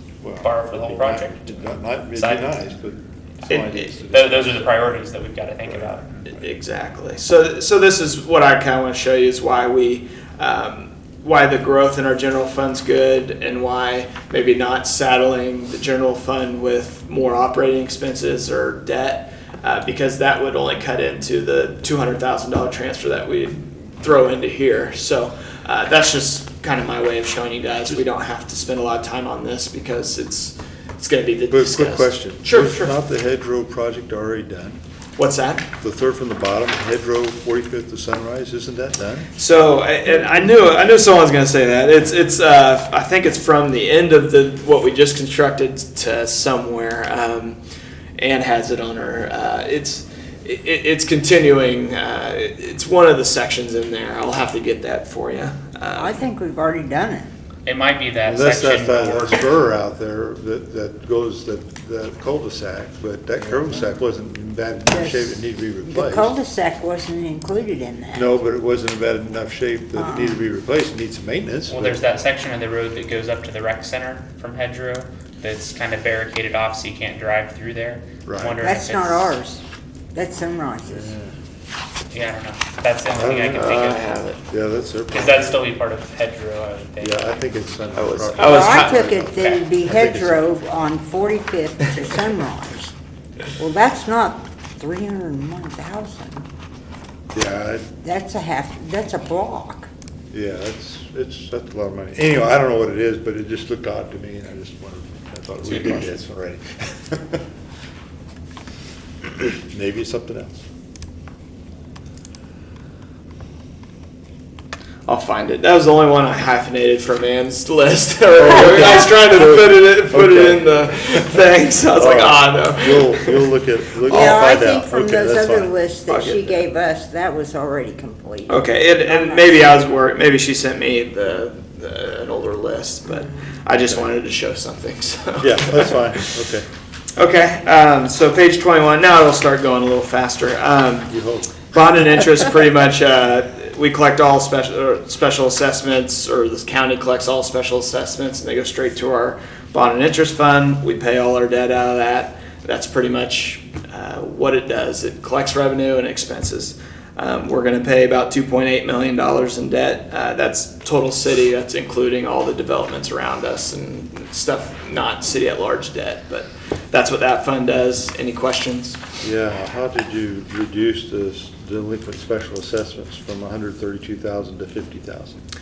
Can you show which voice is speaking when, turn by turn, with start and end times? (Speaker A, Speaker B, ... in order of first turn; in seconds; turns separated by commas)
Speaker A: 0.2-4.9, Speaker B: 0.4-1.6, Speaker B: 2.1-2.5, Speaker B: 3.5-6.1, Speaker C: 6.3-32.9, Speaker A: 31.5-34.8, Speaker C: 35.1-35.7, Speaker A: 35.8-39.3, Speaker C: 39.4-47.6, Speaker C: 48.2-56.2, Speaker D: 56.0-57.3, Speaker B: 57.6-59.4, Speaker A: 58.2-66.3, Speaker D: 64.9-68.3, Speaker A: 68.1-72.1, Speaker D: 70.0-70.4, Speaker B: 71.7-79.4, Speaker A: 78.2-78.6, Speaker D: 78.6-79.6, Speaker D: 80.1-81.1, Speaker A: 80.9-81.3, Speaker B: 82.1-84.0, Speaker A: 83.1-83.9, Speaker C: 83.5-84.4, Speaker A: 84.5-85.6, Speaker B: 85.1-87.4, Speaker A: 87.0-90.5, Speaker C: 88.0-89.2, Speaker D: 88.4-92.9, Speaker B: 89.3-89.6, Speaker D: 93.5-96.5, Speaker A: 97.3-97.9, Speaker D: 98.0-99.9, Speaker A: 100.3-107.4, Speaker A: 109.4-110.6, Speaker C: 115.1-123.4, Speaker A: 118.4-121.3, Speaker A: 121.9-125.7, Speaker D: 124.1-129.8, Speaker C: 126.1-126.6, Speaker C: 128.5-136.3, Speaker A: 133.7-134.1, Speaker A: 135.4-136.7, Speaker C: 137.2-141.1, Speaker A: 141.1-141.6, Speaker C: 141.6-169.0, Speaker A: 169.2-175.4